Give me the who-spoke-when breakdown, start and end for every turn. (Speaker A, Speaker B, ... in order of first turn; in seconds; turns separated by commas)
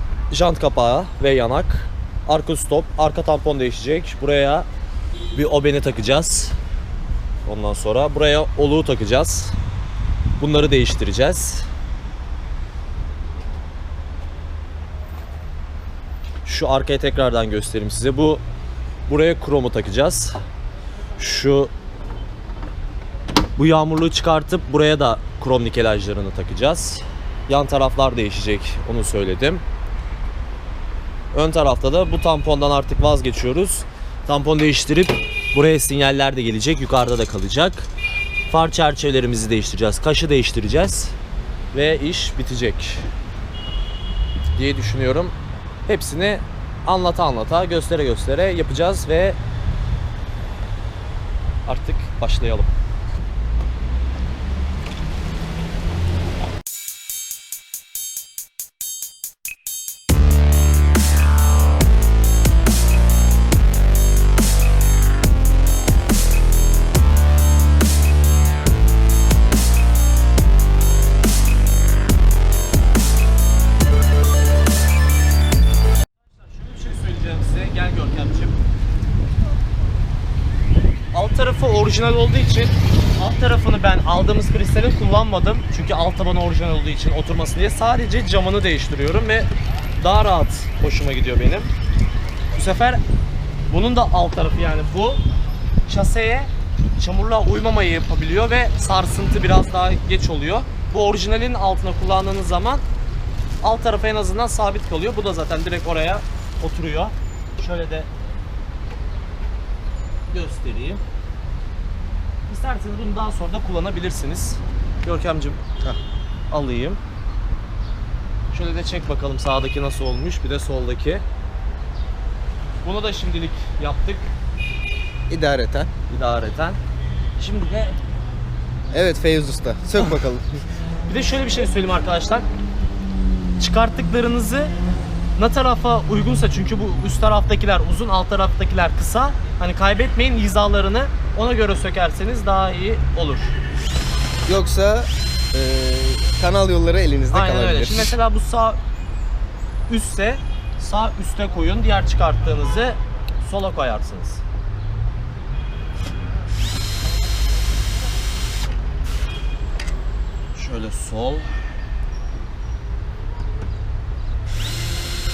Speaker A: 0.3-4.7, Speaker A: 5.3-6.6, Speaker A: 7.4-9.6, Speaker A: 10.4-11.7, Speaker A: 16.4-18.4, Speaker A: 19.1-20.4, Speaker A: 21.2-21.7, Speaker A: 23.6-29.6, Speaker A: 31.3-37.9, Speaker A: 38.5-41.2, Speaker A: 41.7-43.1, Speaker A: 44.5-45.3, Speaker A: 45.9-49.4, Speaker A: 51.6-52.7, Speaker A: 76.3-78.6, Speaker A: 81.1-91.7, Speaker A: 92.5-93.0, Speaker A: 93.7-95.2, Speaker A: 95.9-102.8, Speaker A: 103.6-108.1, Speaker A: 110.3-111.0, Speaker A: 112.5-115.6, Speaker A: 116.5-117.0, Speaker A: 118.5-121.2, Speaker A: 122.8-124.3, Speaker B: 125.3-125.9, Speaker A: 126.1-126.8, Speaker A: 127.4-128.0, Speaker B: 128.9-130.6, Speaker A: 131.1-132.5, Speaker A: 133.6-134.7, Speaker A: 135.3-143.5, Speaker B: 144.4-148.1, Speaker A: 147.3-148.8, Speaker A: 149.9-154.4, Speaker A: 160.5-161.5